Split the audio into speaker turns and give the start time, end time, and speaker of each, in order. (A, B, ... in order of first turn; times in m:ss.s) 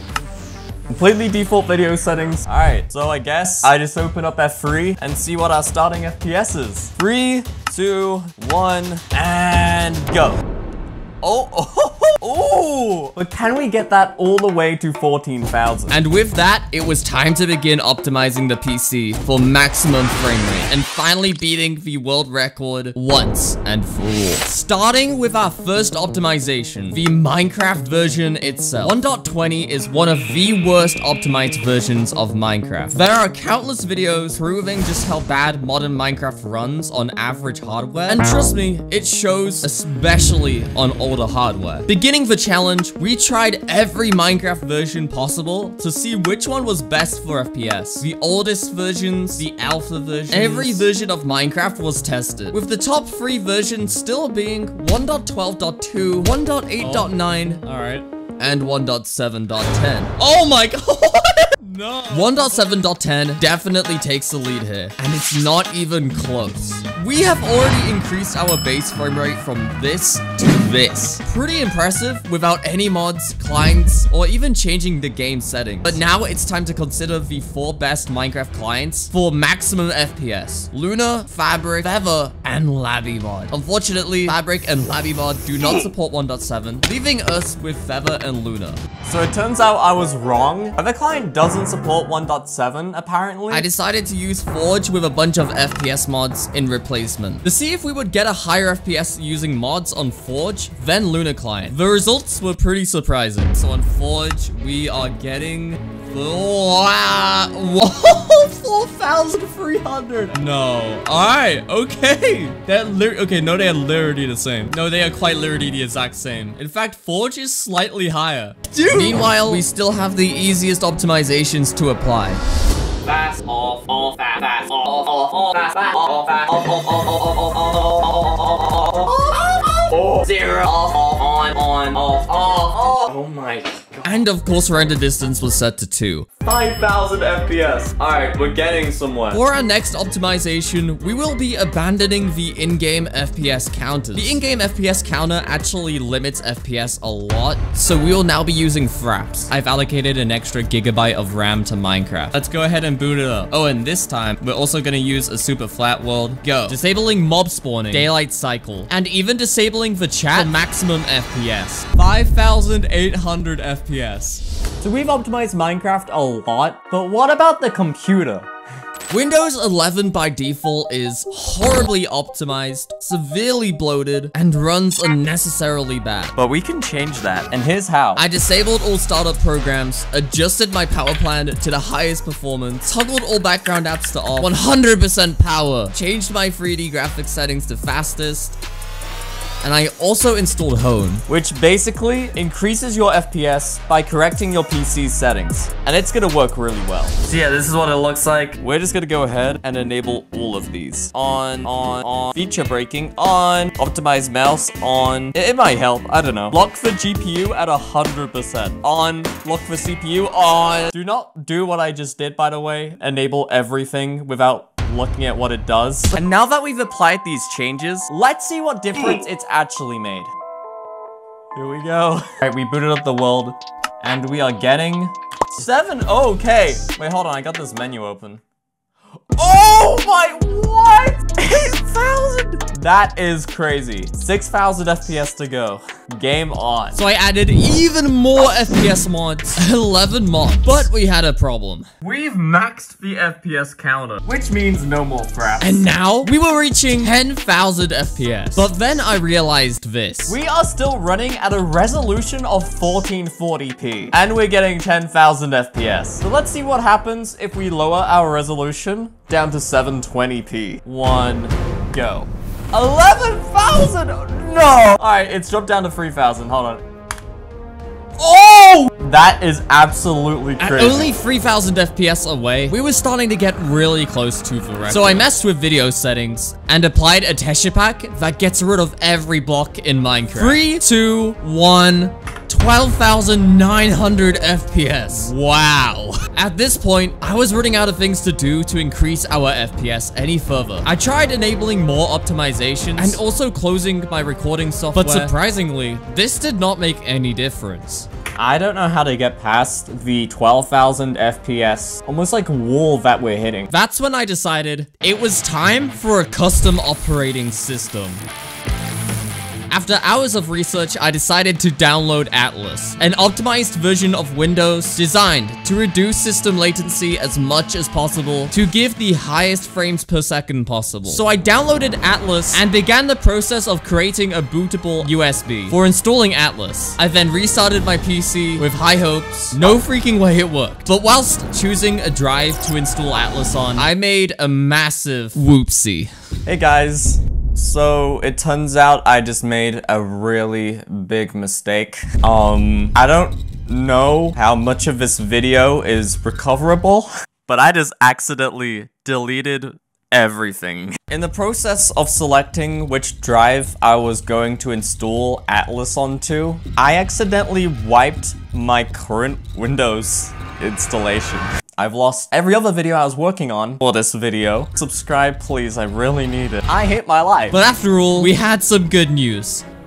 0:00.9-0:10.4 A
0:11.2-0:16.0 A
0:15.9-0:57.7 B
0:50.1-0:50.8 A
0:56.8-0:58.0 A
0:58.4-1:01.6 B
1:01.6-1:02.4 A
1:02.1-1:28.8 B
1:29.0-1:33.6 A
1:33.5-1:52.8 B
1:49.9-1:50.3 A
1:52.8-1:59.6 A
1:57.0-1:57.7 B
1:58.9-2:02.4 B
2:03.0-2:14.0 A
2:09.4-2:09.7 B
2:14.0-2:16.3 B
2:16.4-2:19.4 A
2:19.3-2:34.4 B
2:34.4-2:36.1 A
2:36.0-2:44.4 B
2:44.8-2:48.5 A
2:49.1-2:56.4 B
2:56.4-2:58.2 A
2:58.1-3:08.6 B
3:09.6-3:11.2 B
3:11.3-3:40.3 A
3:41.5-3:48.4 A
3:49.4-3:57.0 A
3:56.9-4:01.9 B
4:02.0-4:05.8 A
4:05.6-4:10.4 B
4:10.3-4:26.8 A
4:28.2-4:31.1 A
4:30.6-4:58.1 B
4:34.9-4:35.2 A
4:40.4-4:41.3 A
4:55.0-4:55.3 A
4:58.4-5:03.7 A
5:03.7-5:08.2 B
5:09.7-5:36.1 B
5:36.4-6:07.6 A
6:07.5-6:09.6 B